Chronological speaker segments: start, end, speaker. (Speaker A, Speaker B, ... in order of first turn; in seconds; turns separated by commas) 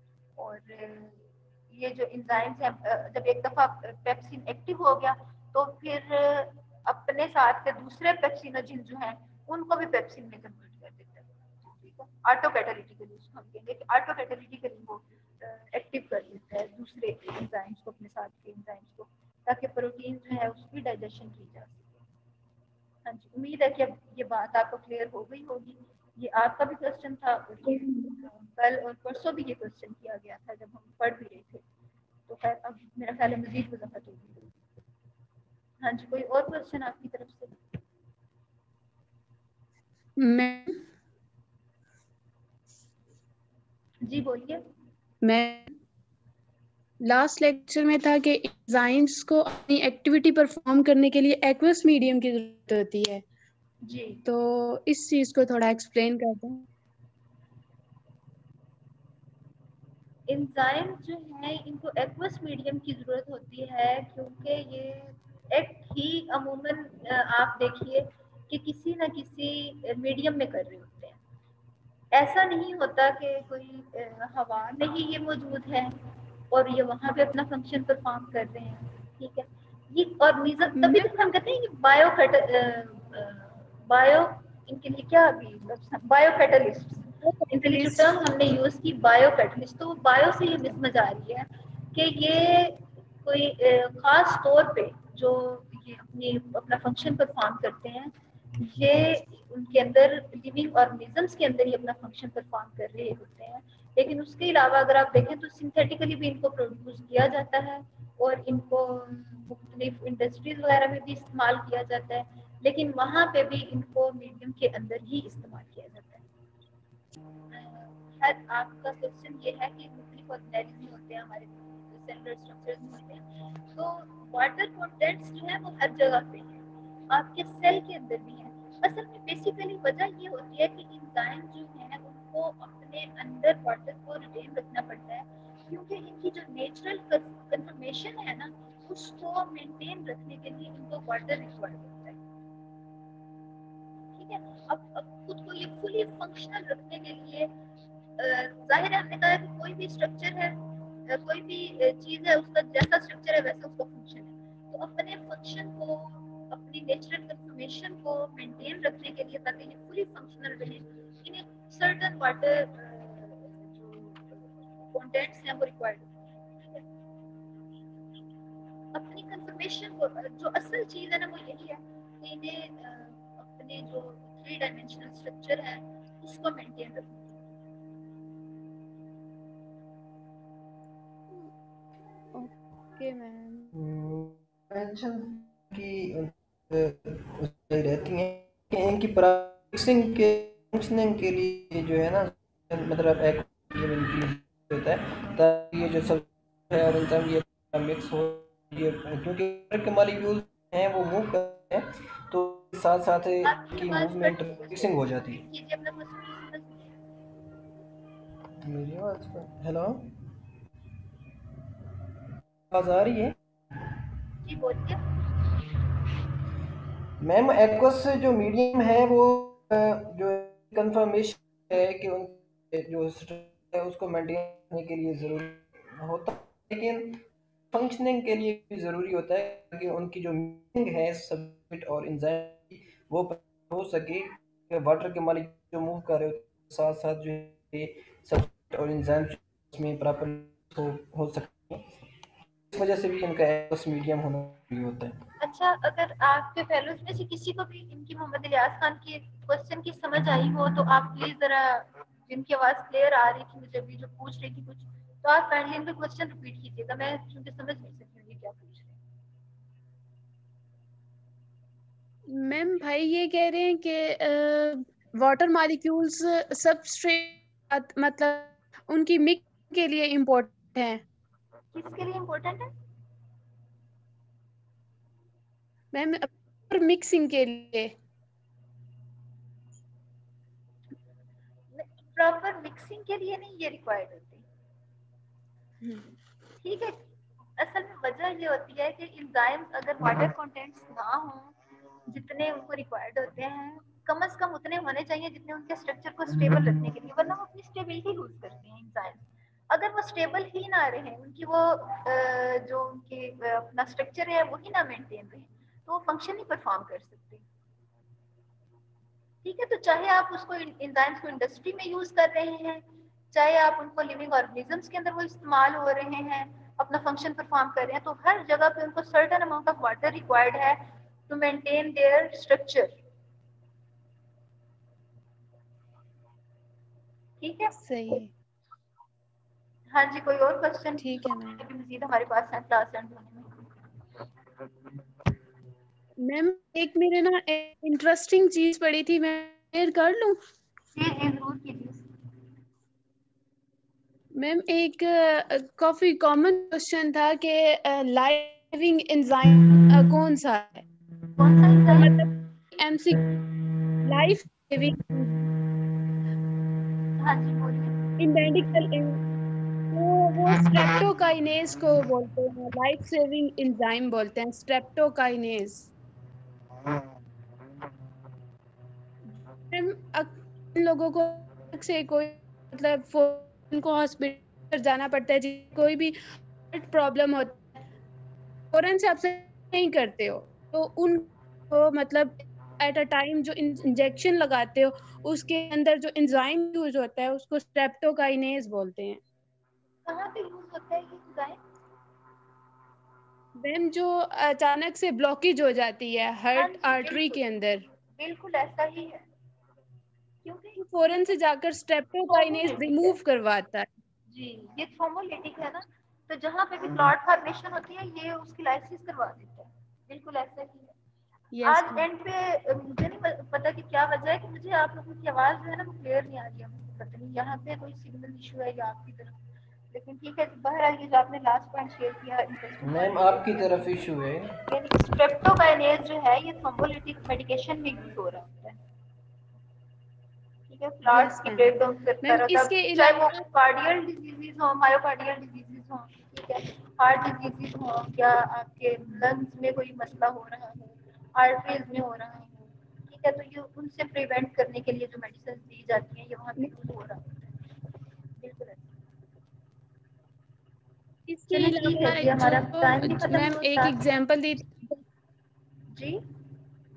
Speaker A: 0.4-21.8, Speaker A: 23.1-31.6, Speaker A: 32.3-34.5, Speaker A: 35.8-37.5, Speaker B: 40.2-40.7, Speaker A: 44.0-44.6, Speaker B: 45.2-45.7, Speaker B: 47.0-53.2, Speaker A: 53.9-54.2, Speaker B: 54.2-56.6, Speaker A: 60.3-71.2, Speaker A: 72.1-76.0, Speaker A: 76.5-116.2, Speaker B: 80.7-81.1, Speaker B: 87.2-88.1, Speaker A: 117.5-142.2, Speaker A: 144.2-147.5, Speaker A: 148.2-166.8, Speaker A: 168.9-177.3, Speaker B: 182.3-183.7, Speaker C: 183.7-205.4, Speaker A: 203.4-206.8, Speaker C: 208.6-210.2, Speaker C: 212.7-213.3, Speaker A: 214.4-215.0, Speaker C: 217.2-241.9, Speaker C: 242.7-245.2, Speaker A: 245.4-259.0, Speaker B: 262.3-271.0, Speaker A: 271.7-272.7, Speaker B: 275.9-277.9, Speaker A: 281.7-284.4, Speaker B: 285.8-286.1, Speaker A: 286.6-287.0, Speaker A: 287.6-291.5, Speaker A: 292.1-307.4, Speaker A: 309.4-322.9, Speaker A: 327.4-327.8, Speaker B: 327.8-328.3, Speaker A: 329.9-333.6, Speaker B: 331.0-331.6, Speaker B: 336.2-340.4, Speaker A: 340.9-342.0, Speaker B: 344.4-350.8, Speaker A: 351.4-352.1, Speaker B: 351.9-353.3, Speaker B: 354.0-355.5, Speaker A: 357.2-358.1, Speaker B: 358.2-359.2, Speaker B: 359.9-365.9, Speaker B: 369.4-376.1, Speaker B: 376.7-377.6, Speaker B: 378.7-389.2, Speaker A: 390.0-391.6, Speaker B: 393.6-397.9, Speaker A: 396.5-397.4, Speaker A: 398.1-399.2, Speaker A: 400.4-400.8, Speaker B: 400.8-403.9, Speaker A: 402.3-403.2, Speaker A: 404.3-410.9, Speaker B: 411.5-412.1, Speaker A: 411.6-419.4, Speaker A: 419.9-424.0, Speaker C: 422.8-424.6, Speaker A: 424.7-428.8, Speaker A: 430.7-447.6, Speaker B: 431.1-433.4, Speaker A: 448.4-448.9, Speaker B: 451.3-455.0, Speaker A: 451.5-454.0, Speaker A: 455.9-456.2